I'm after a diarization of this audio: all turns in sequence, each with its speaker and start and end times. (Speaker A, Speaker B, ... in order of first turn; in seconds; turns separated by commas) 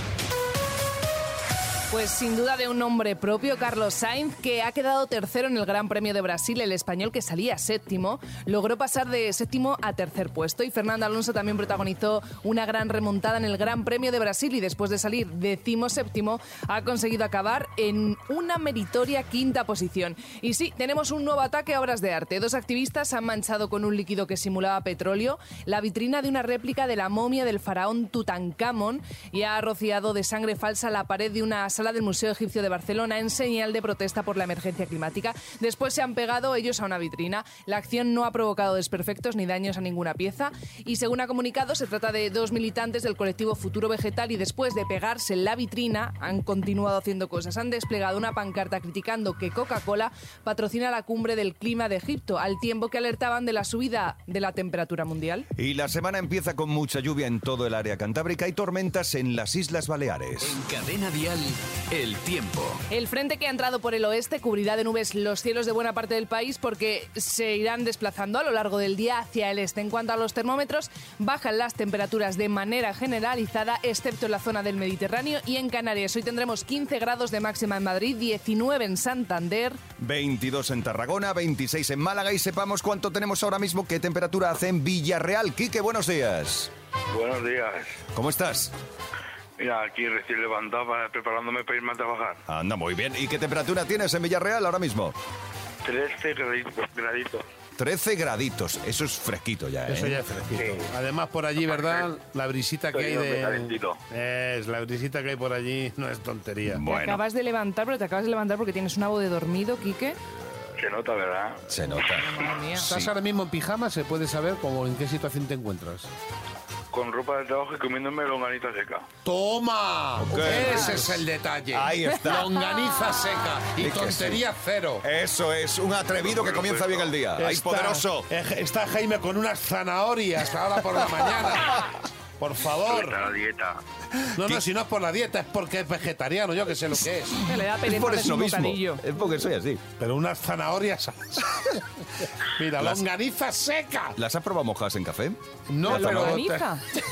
Speaker A: 1.9-55.5, Speaker B: 55.6-60.6, Speaker C: 60.4-62.8, Speaker A: 62.9-79.8, Speaker B: 80.0-86.7, Speaker D: 87.1-88.0, Speaker B: 88.1-88.7, Speaker D: 89.6-92.4, Speaker B: 92.5-95.2, Speaker D: 95.8-97.4, Speaker B: 97.8-100.2, Speaker E: 99.9-106.8, Speaker D: 101.7-102.0, Speaker D: 102.9-104.0, Speaker B: 106.7-107.2, Speaker A: 106.8-110.2, Speaker D: 110.8-112.0, Speaker B: 111.7-112.3, Speaker A: 112.1-112.9, Speaker E: 112.8-116.1, Speaker D: 116.9-119.1, Speaker E: 119.2-125.0, Speaker B: 120.2-122.5, Speaker B: 123.8-124.4, Speaker B: 125.0-128.3, Speaker D: 126.2-127.1, Speaker E: 127.4-131.9, Speaker E: 132.4-133.2, Speaker D: 132.8-133.8, Speaker E: 134.4-137.4, Speaker A: 137.4-139.0, Speaker B: 137.8-139.8, Speaker E: 140.0-141.6, Speaker E: 142.6-144.2, Speaker B: 144.2-146.4, Speaker E: 145.7-146.7, Speaker A: 145.8-146.8